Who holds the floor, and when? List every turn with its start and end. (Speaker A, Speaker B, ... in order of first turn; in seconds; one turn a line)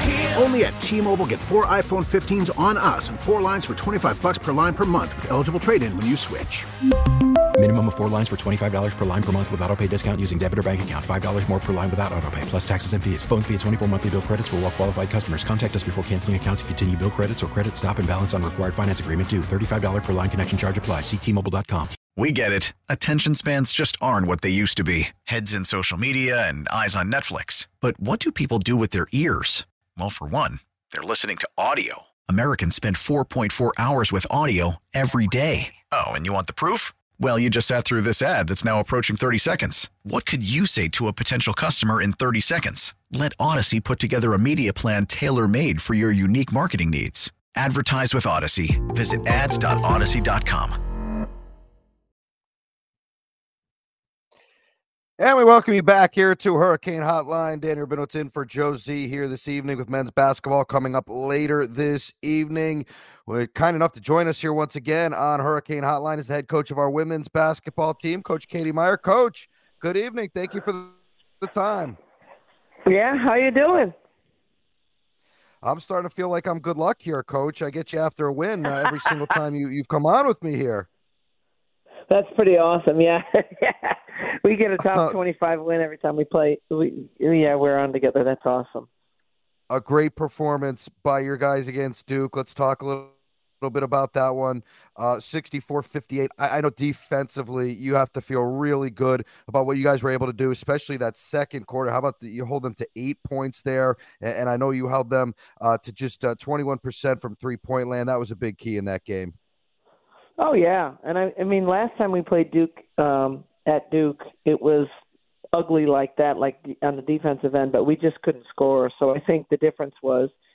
Speaker A: 0.3-6.6
Speaker B: 7.5-22.0
Speaker C: 22.1-50.8
Speaker D: 55.2-72.0
Speaker E: 72.9-73.9
Speaker D: 75.6-80.9
Speaker E: 82.1-88.9
Speaker D: 84.8-85.2
Speaker D: 89.7-109.3
Speaker E: 110.4-114.9
Speaker E: 115.5-120.3